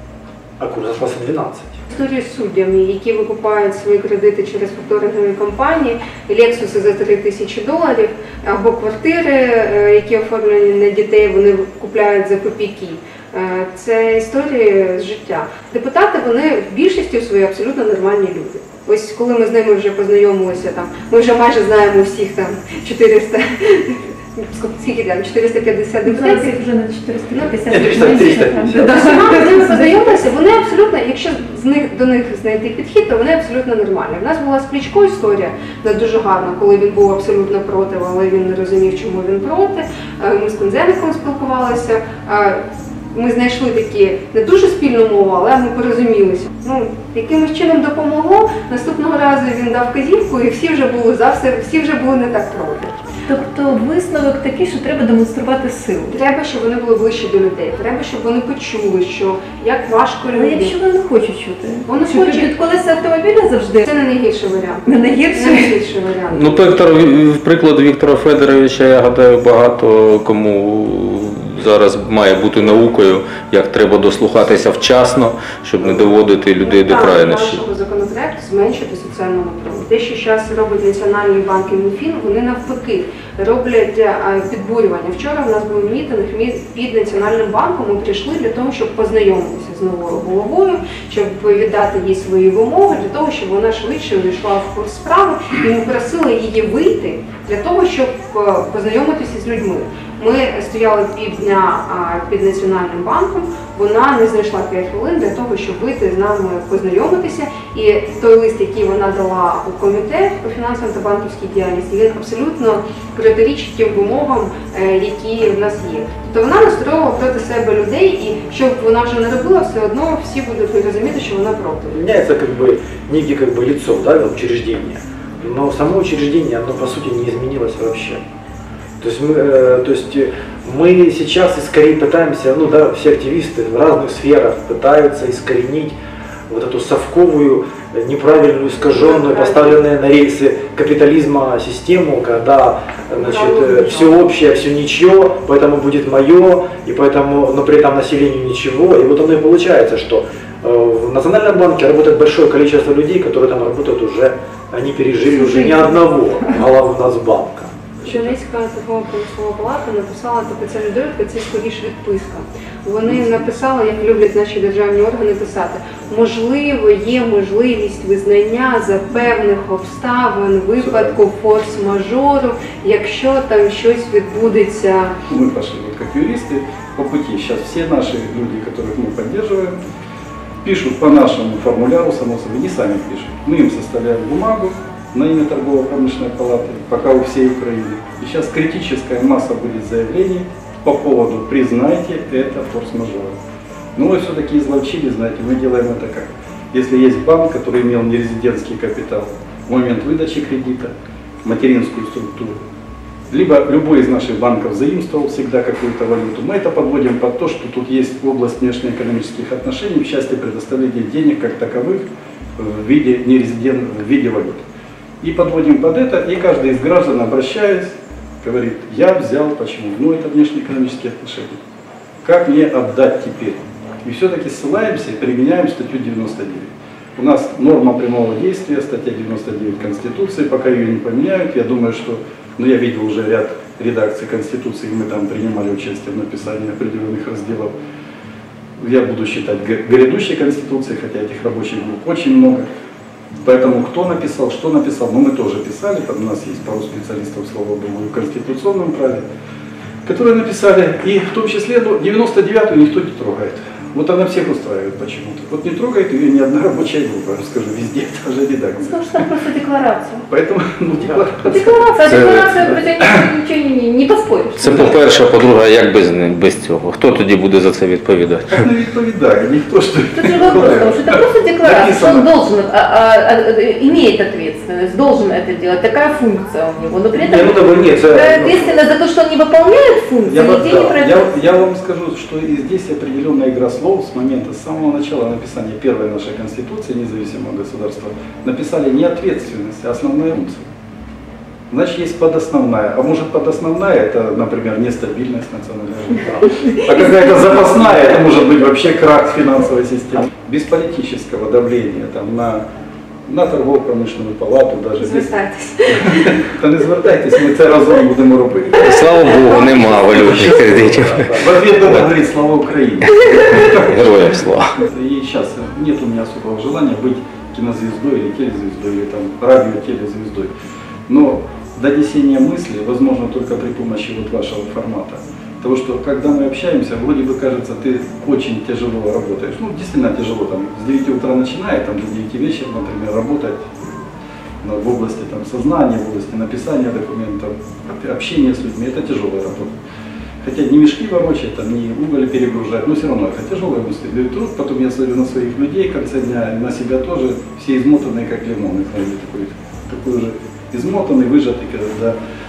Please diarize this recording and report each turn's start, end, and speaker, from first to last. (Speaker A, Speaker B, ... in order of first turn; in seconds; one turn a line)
Speaker A: 0.6-1.8
Speaker B: 1.9-26.6
Speaker C: 26.1-30.2
Speaker B: 27.3-42.6
Speaker A: 27.7-29.1
Speaker B: 43.1-53.0
Speaker C: 53.3-56.2
Speaker B: 56.1-60.7
Speaker C: 60.3-63.9
Speaker B: 61.9-62.5
Speaker B: 63.9-66.7
Speaker C: 64.8-65.7
Speaker D: 66.3-77.6
Speaker B: 75.8-122.0
Speaker A: 121.9-128.2
Speaker A: 129.0-135.9
Speaker A: 136.5-158.3
Speaker B: 138.8-139.8
Speaker B: 143.2-144.2
Speaker B: 158.0-175.1
Speaker E: 170.8-171.1
Speaker E: 175.3-179.8
Speaker E: 180.6-193.3
Speaker E: 193.9-200.9
Speaker E: 201.4-202.6
Speaker E: 203.3-212.0
Speaker E: 212.6-214.6
Speaker E: 215.2-221.6
Speaker E: 222.2-237.7
Speaker E: 238.8-242.7
Speaker E: 243.4-249.2
Speaker E: 250.1-259.3
Speaker C: 258.8-260.2
Speaker E: 260.3-263.2
Speaker C: 261.4-265.0
Speaker D: 262.0-262.4
Speaker D: 264.6-268.6
Speaker E: 268.5-272.3
Speaker C: 270.1-281.2
Speaker A: 277.1-278.8
Speaker E: 280.3-290.6
Speaker E: 291.7-302.6
Speaker E: 303.3-305.3
Speaker B: 305.0-306.4
Speaker E: 305.9-308.9
Speaker D: 308.8-311.3
Speaker E: 310.1-314.2
Speaker A: 310.3-311.5
Speaker D: 313.3-314.8
Speaker E: 314.7-320.5
Speaker E: 321.1-334.1
Speaker E: 334.6-339.8
Speaker E: 340.4-352.1